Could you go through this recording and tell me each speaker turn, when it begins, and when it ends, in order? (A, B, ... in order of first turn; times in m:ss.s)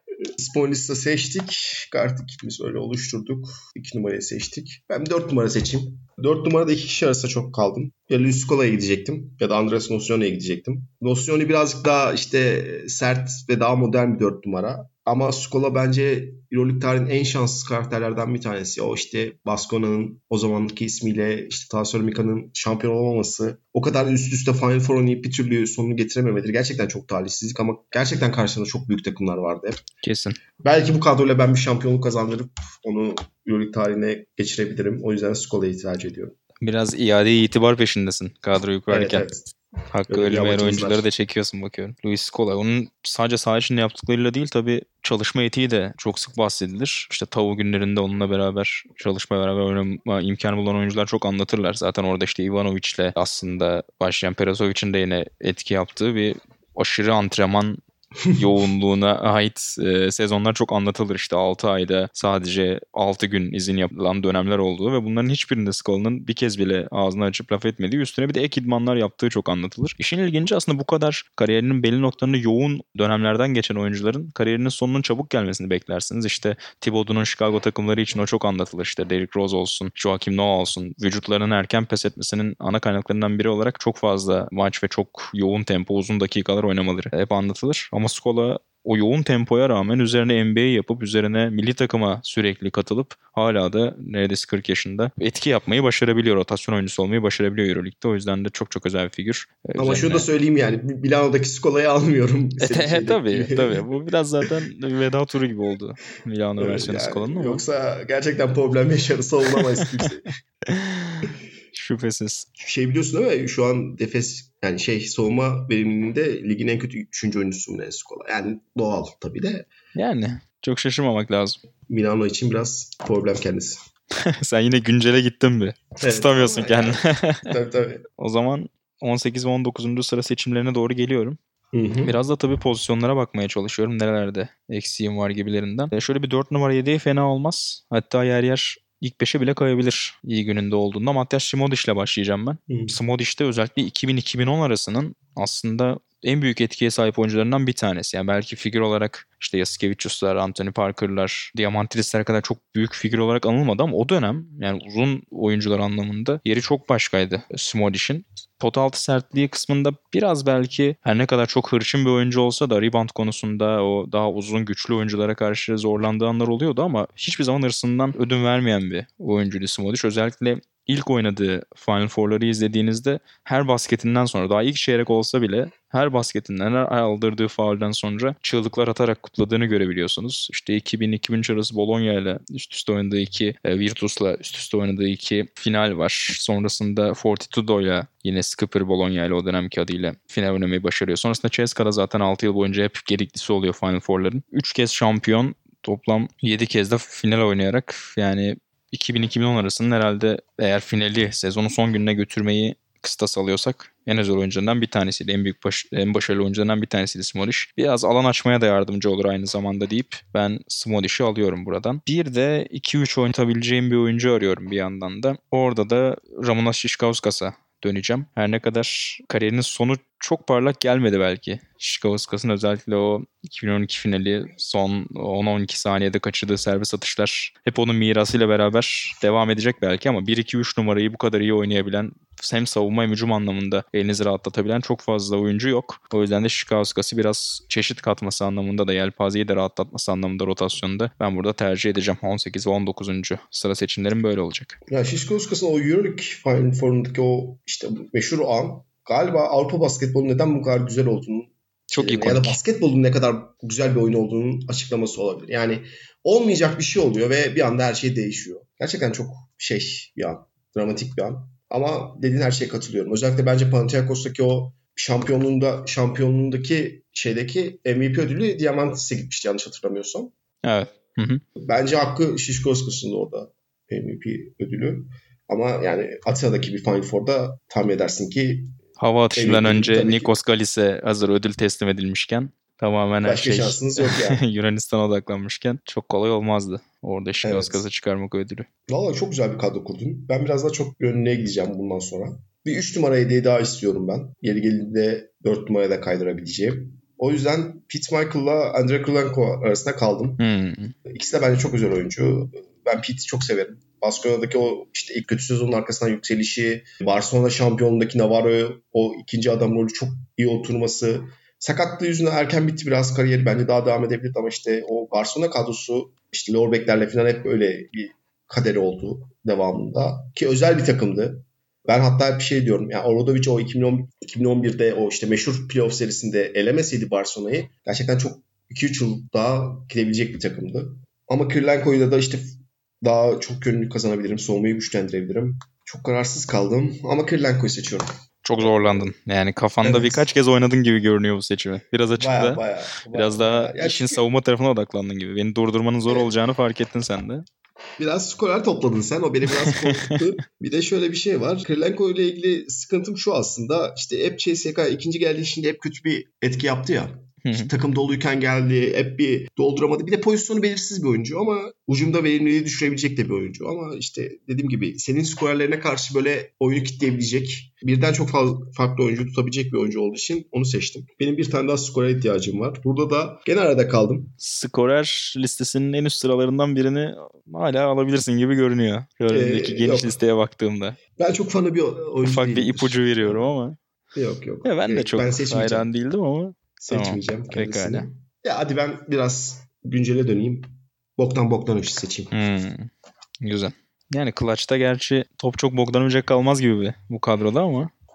0:00.4-0:29.8 A
0:30.0-0:30.4 B
0:30.6-0:36.4 A
0:36.6-0:39.2 B
0:38.9-0:39.5 A
0:39.9-0:57.8 B
0:40.1-0:41.1 A
0:58.3-1:40.3 B
1:39.8-1:43.8 A
1:42.6-1:47.6 B
1:46.6-1:50.3 A
1:50.7-1:52.5 B
1:52.6-1:59.7 A
2:00.0-2:01.6 B
2:01.9-2:03.8 A
2:04.3-2:07.5 B
2:06.0-2:08.0 A
2:08.2-2:11.4 B
2:11.7-2:12.2 A
2:12.0-4:04.8 B
2:22.7-2:23.0 A
4:04.9-4:30.3 A
4:11.9-4:12.6 B
4:30.6-4:31.4 B
4:31.6-4:38.8 A
4:39.0-4:48.7 B
4:39.4-4:40.3 A
4:43.2-4:44.4 A
4:47.4-4:47.8 A
4:48.9-5:00.4 A
5:00.4-5:01.0 B
5:01.1-5:38.1 A
5:38.4-5:47.4 B
5:38.6-5:39.1 A
5:39.8-5:40.3 A
5:42.2-5:44.2 A
5:48.0-6:14.4 A
5:49.6-5:50.2 B
5:57.4-5:57.7 B
6:14.4-6:21.0 B
6:19.3-6:20.2 A
6:21.2-6:23.4 A
6:22.2-6:23.8 B
6:24.2-6:25.9 A
6:24.6-6:28.1 B
6:26.8-6:32.3 A
6:32.3-6:32.9 B
6:33.4-6:37.9 B